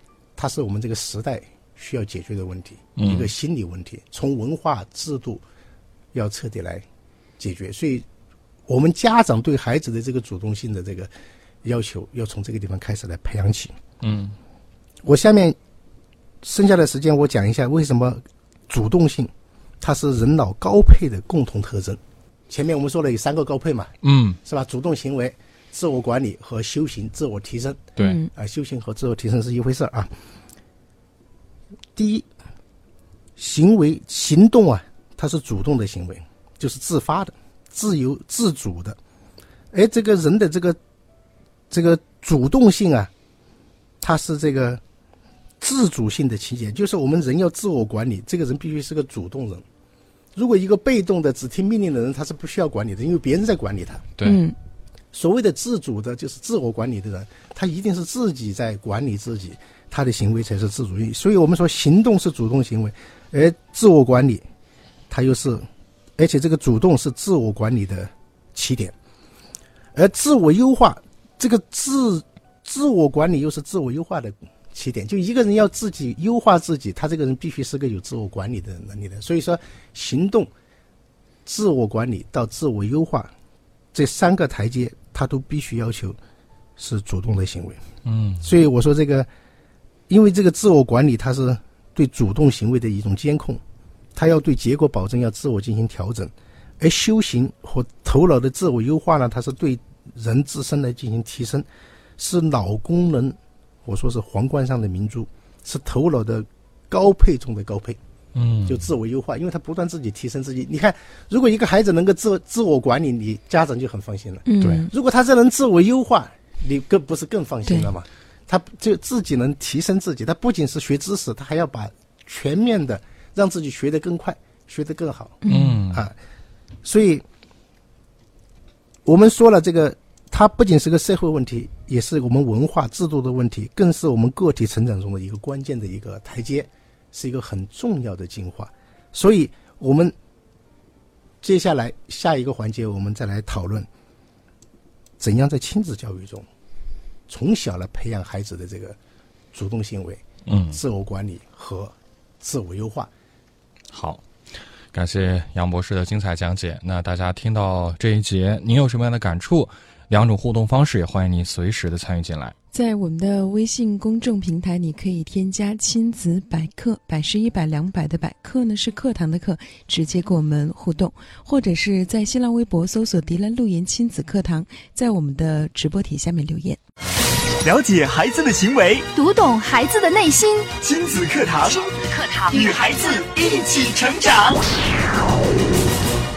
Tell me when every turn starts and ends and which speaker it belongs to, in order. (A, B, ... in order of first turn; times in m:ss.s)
0:00.4-0:05.4 A
0:03.0-0:03.3 B
0:06.1-0:06.8 A
0:07.4-0:08.0 A
0:08.7-0:11.1 A
0:11.6-0:13.7 A
0:14.0-0:14.3 B
0:15.0-0:15.6 A
0:16.4-0:23.9 A
0:24.0-0:24.4 B
0:24.4-0:27.8 A
0:28.0-0:28.3 C
0:28.3-0:30.1 A
0:32.0-0:32.2 A
0:33.4-0:39.0 A
0:39.7-0:40.8 A
0:41.7-0:43.1 A
0:44.0-0:44.8 A
0:45.6-0:49.6 A
0:50.3-0:54.0 A
0:54.2-0:54.6 C
0:55.1-1:04.4 A
1:05.1-1:05.6 A
1:06.2-1:08.9 A
1:09.9-1:20.5 A
1:21.4-1:23.3 A
1:23.9-1:26.2 A
1:26.8-1:27.8 A
1:28.0-1:28.5 B
1:28.4-1:29.3 A
1:30.1-1:33.6 A
1:34.2-1:41.7 A
1:42.2-1:48.0 A
1:48.3-1:48.8 B
1:48.6-2:05.4 A
1:54.4-1:54.9 C
1:54.6-1:54.8 B
2:05.4-2:05.8 C
2:05.4-2:06.0 B
2:06.8-2:07.2 A
2:09.0-2:20.1 A
2:21.4-2:23.9 A
2:25.2-2:26.5 A
2:27.3-2:29.0 A
2:29.5-2:33.1 A
2:30.4-2:30.8 B
2:33.9-2:34.2 B
2:34.9-2:42.6 B
2:42.7-2:56.8 C
2:57.6-2:59.1 D
2:59.1-3:00.7 E
3:00.8-3:01.9 D
3:01.7-3:02.8 E
3:02.5-3:04.6 D